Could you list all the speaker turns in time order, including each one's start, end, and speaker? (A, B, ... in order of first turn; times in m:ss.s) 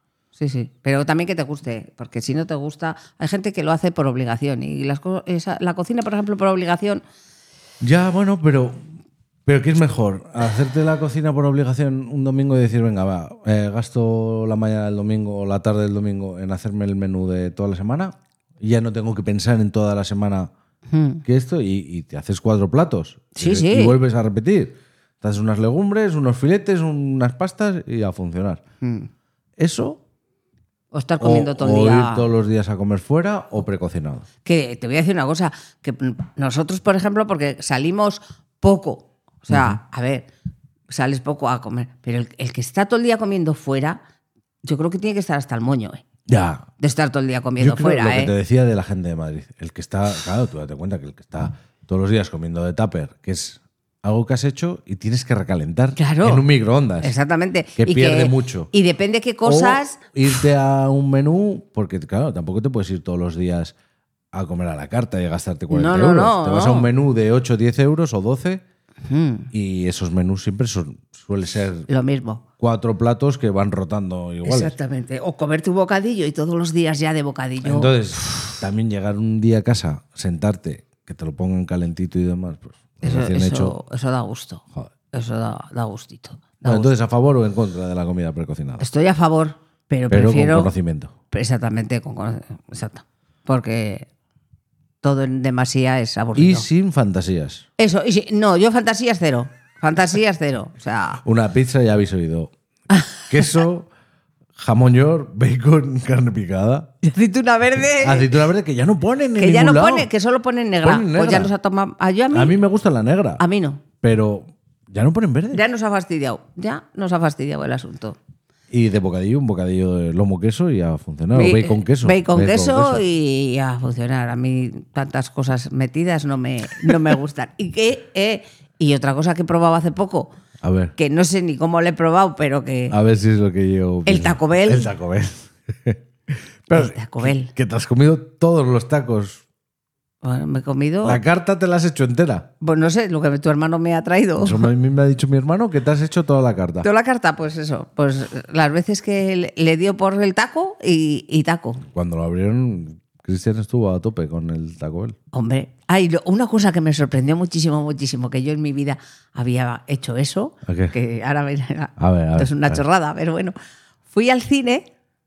0:00.4-0:07.0 A
0:07.8-0:08.8 B
0:09.5-0:20.5 B
0:20.9-0:21.2 A
0:21.2-0:28.6 B
0:23.4-0:24.0 A
0:28.8-0:29.1 A
0:29.6-0:30.0 B
0:30.9-0:32.3 A
0:31.2-0:34.3 B
0:34.4-0:40.3 A
0:39.5-0:39.8 B
0:40.9-0:44.0 A
0:44.6-0:46.0 A
0:46.3-0:46.6 B
0:46.8-0:48.3 A
0:47.6-0:57.1 B
0:56.0-0:56.5 A
0:57.0-1:00.0 A
0:57.8-0:58.7 B
0:59.4-1:03.7 B
1:04.3-1:08.6 B
1:05.7-1:06.9 A
1:09.1-1:09.5 A
1:09.5-1:11.9 B
1:11.9-1:12.4 A
1:12.6-1:14.7 B
1:14.4-1:18.5 A
1:17.6-1:23.8 B
1:23.0-1:26.9 A
1:26.6-1:28.9 B
1:28.8-1:30.7 A
1:30.1-1:31.1 B
1:31.3-1:34.1 A
1:35.0-1:36.7 A
1:36.4-1:37.7 B
1:37.8-1:41.2 A
1:41.2-1:42.5 B
1:42.9-1:43.6 A
1:43.2-1:43.9 B
1:44.6-1:46.9 B
1:47.0-1:48.4 A
1:48.0-1:50.1 B
1:49.4-1:52.6 A
1:50.8-1:51.5 B
1:52.3-1:53.4 B
1:53.4-1:53.8 A
1:54.0-1:55.6 B
1:55.5-1:58.2 A
1:58.7-2:03.0 B
2:01.3-2:10.3 A
2:10.6-2:10.9 B
2:11.0-2:13.0 A
2:12.9-2:19.4 B
2:14.1-2:14.9 A
2:16.7-2:17.5 A
2:20.2-2:21.2 A
2:21.0-2:22.5 B
2:22.6-2:24.7 A
2:24.4-2:26.9 B
2:26.8-2:31.8 A
2:31.9-2:35.2 B
2:35.3-2:43.6 A
2:40.7-2:41.0 B
2:42.0-2:42.8 B
2:44.1-2:44.9 A